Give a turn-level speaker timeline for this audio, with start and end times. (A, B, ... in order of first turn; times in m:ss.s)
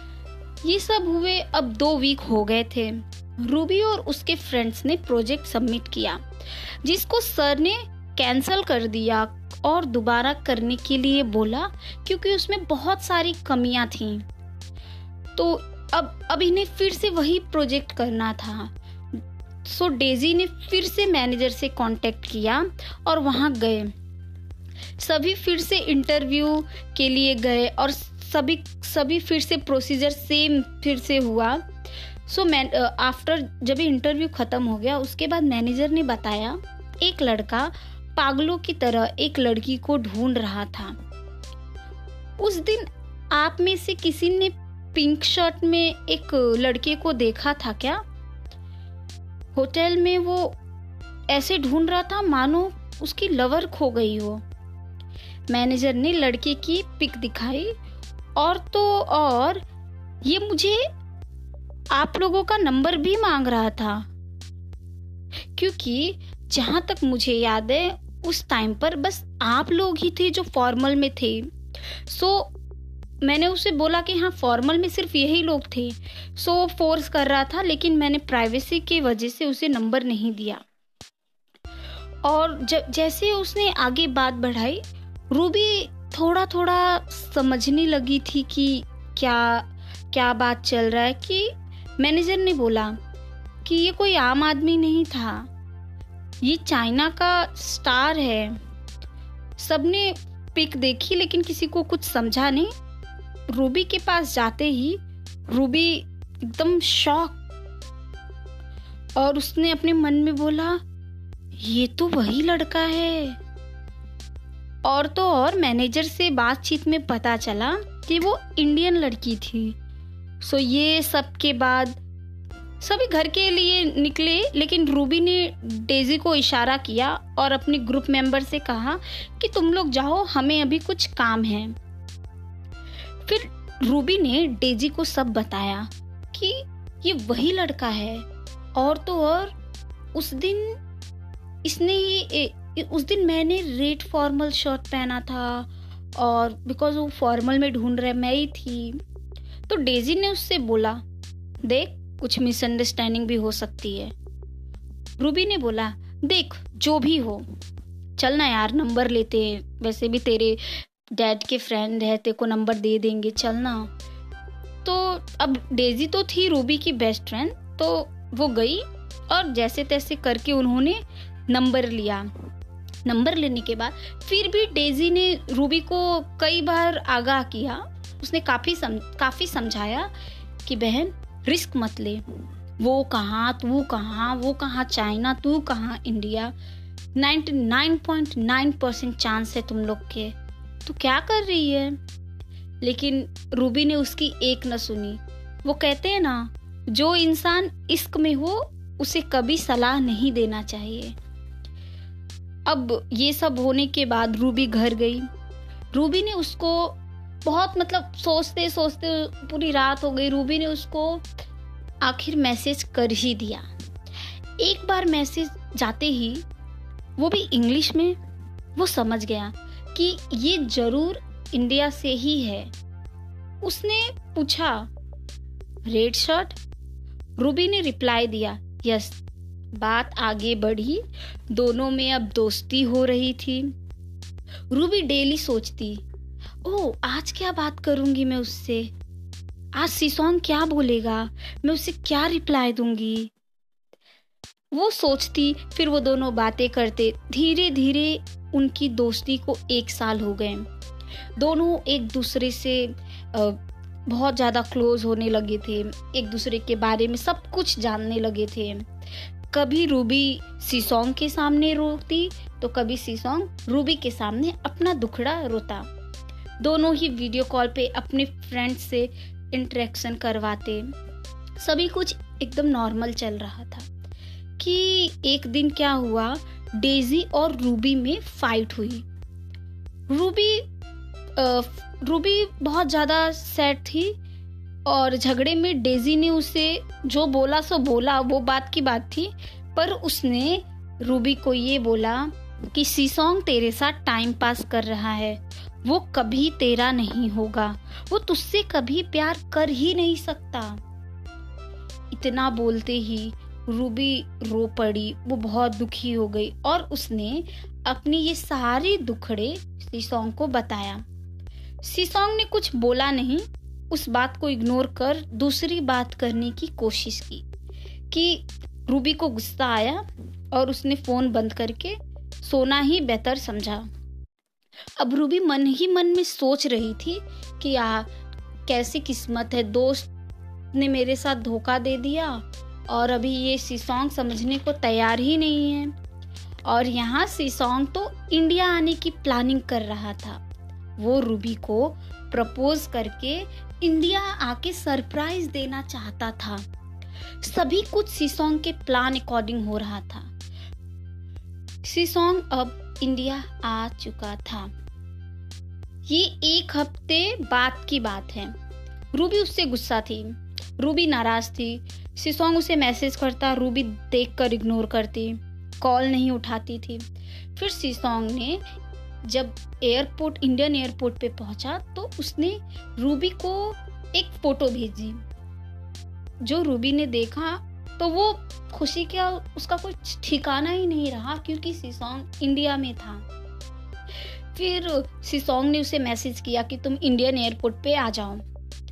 0:00.6-0:14.2 A
0:15.4-0:23.9 A
0:25.0-0:31.6 A
0:32.3-0:41.0 A
0:42.4-0:48.0 A
0:49.5-0:50.6 A
0:51.3-0:54.4 A
0:55.5-0:57.7 A
0:58.4-0:59.6 A
1:00.2-1:00.8 A
1:01.9-1:04.1 A
1:05.6-1:11.5 A
1:12.1-1:12.5 A
1:13.2-1:20.6 A
1:22.2-1:33.0 A
1:33.6-1:35.5 A
1:36.4-1:38.6 A
1:39.6-1:42.7 A
1:43.5-1:47.4 A
1:49.2-1:50.8 A
1:51.6-1:53.4 A
1:54.8-1:59.8 A
2:00.4-2:02.0 A
2:02.8-2:11.8 A
2:13.2-2:19.5 A
2:20.1-2:20.8 A
2:21.6-2:29.0 A
2:29.7-2:31.0 A
2:31.6-2:34.1 A
2:35.2-2:37.4 A
2:38.2-2:43.9 A
2:44.8-2:52.3 A
2:53.0-3:00.1 A
3:00.6-3:02.2 A
3:02.8-3:06.5 A
3:07.2-3:12.0 A
3:12.8-3:21.1 A
3:22.7-3:25.3 A
3:25.9-3:31.2 A
3:32.0-3:33.6 A
3:34.6-3:36.4 A
3:37.2-3:38.2 A
3:38.8-3:42.7 A
3:43.6-3:44.9 A
3:45.9-3:46.6 A
3:47.4-3:49.2 A
3:49.8-3:53.7 A
3:54.7-3:56.0 A
3:56.6-3:58.9 A
3:59.7-4:03.3 A
4:04.7-4:10.7 A
4:11.4-4:18.9 A
4:19.5-4:25.9 A
4:26.6-4:30.9 A
4:31.6-4:33.9 A
4:34.6-4:39.0 A
4:40.1-4:40.7 A
4:41.4-4:44.2 A
4:44.8-5:00.8 A
5:02.1-5:11.0 A
5:11.8-5:17.4 A
5:18.1-5:23.8 A
5:25.0-5:28.1 A
5:28.7-5:30.1 A
5:30.7-5:35.9 A
5:36.6-5:40.4 A
5:41.0-5:46.6 A
5:47.4-5:50.3 A
5:51.8-5:54.7 A
5:56.1-5:58.6 A
5:59.1-6:07.0 A
6:07.6-6:08.6 A
6:09.2-6:15.2 A
6:16.4-6:23.2 A
6:24.5-6:28.4 A